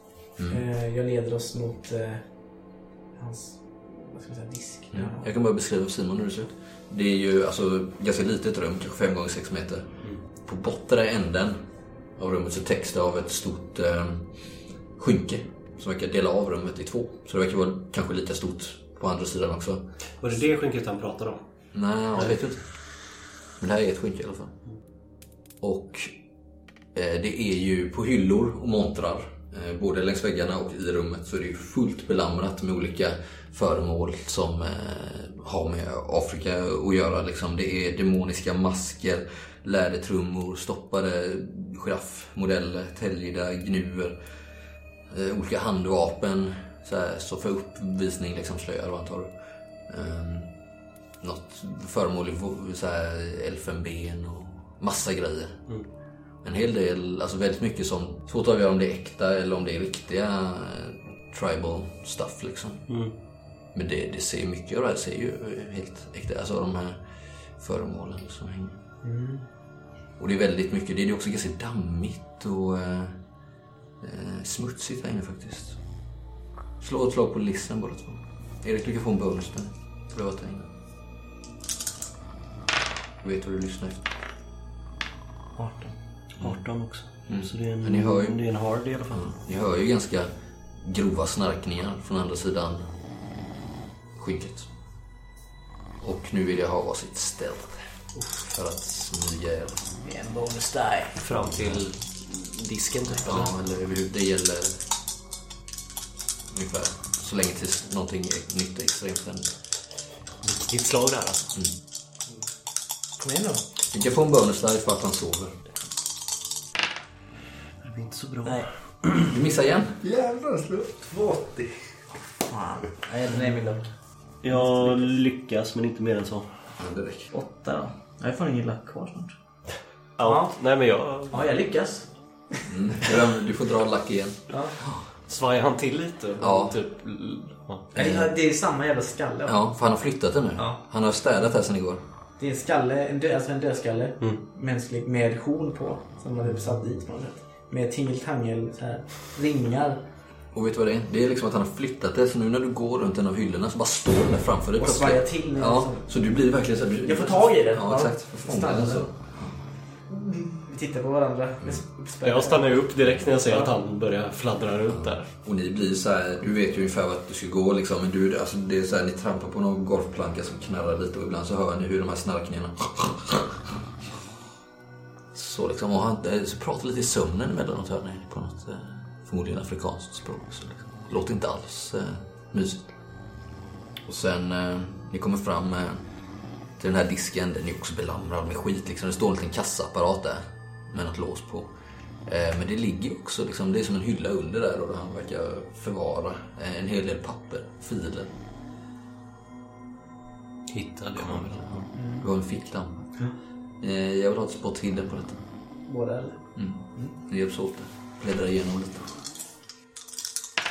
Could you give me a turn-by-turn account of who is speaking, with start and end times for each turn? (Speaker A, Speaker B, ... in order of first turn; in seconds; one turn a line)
Speaker A: 0.4-0.6
Speaker B: 0.5-5.3
Speaker A: 4.9-19.9
Speaker C: 20.2-21.5
Speaker A: 21.7-24.6
Speaker A: 25.6-26.1
Speaker A: 26.9-44.2
Speaker A: 45.1-68.8
Speaker C: 62.9-63.1
Speaker B: 69.0-69.5
Speaker A: 70.2-73.2
Speaker A: 74.0-75.8
Speaker A: 76.8-80.7
Speaker A: 83.2-84.0
Speaker B: 85.6-86.0
Speaker C: 86.3-89.3
Speaker A: 87.2-88.4
Speaker A: 89.1-92.9
Speaker A: 94.2-94.7
Speaker A: 96.0-97.8
Speaker A: 98.3-99.9
Speaker B: 100.0-101.2
Speaker C: 101.2-103.5
Speaker A: 101.4-101.9
Speaker A: 103.2-104.8
Speaker A: 106.5-109.6
Speaker C: 110.4-111.5
Speaker B: 113.2-113.6
Speaker A: 113.9-115.7
Speaker C: 117.8-119.1
Speaker B: 118.5-118.7
Speaker A: 119.2-120.0
Speaker D: 120.0-122.0
Speaker B: 122.5-124.0
Speaker C: 124.4-126.5
Speaker B: 124.5-125.0
Speaker A: 126.8-127.3
Speaker B: 127.3-129.4
Speaker C: 130.2-131.5
Speaker B: 130.3-130.6
Speaker B: 131.3-132.7
Speaker A: 132.7-135.1
Speaker B: 134.5-134.8
Speaker C: 135.3-137.9
Speaker A: 136.4-136.8
Speaker B: 137.9-139.6
Speaker A: 138.0-138.3
Speaker A: 139.5-142.0
Speaker B: 140.6-140.8
Speaker B: 142.4-150.1
Speaker A: 150.5-159.7
Speaker B: 154.8-156.4
Speaker B: 157.0-159.3
Speaker B: 160.1-163.7
Speaker C: 162.2-165.3
Speaker A: 164.9-173.6
Speaker A: 175.3-183.0
Speaker A: 184.1-191.7
Speaker A: 192.2-198.3
Speaker C: 200.7-201.9
Speaker A: 201.2-205.5
Speaker B: 201.9-202.3
Speaker B: 205.8-207.1
Speaker A: 206.6-209.2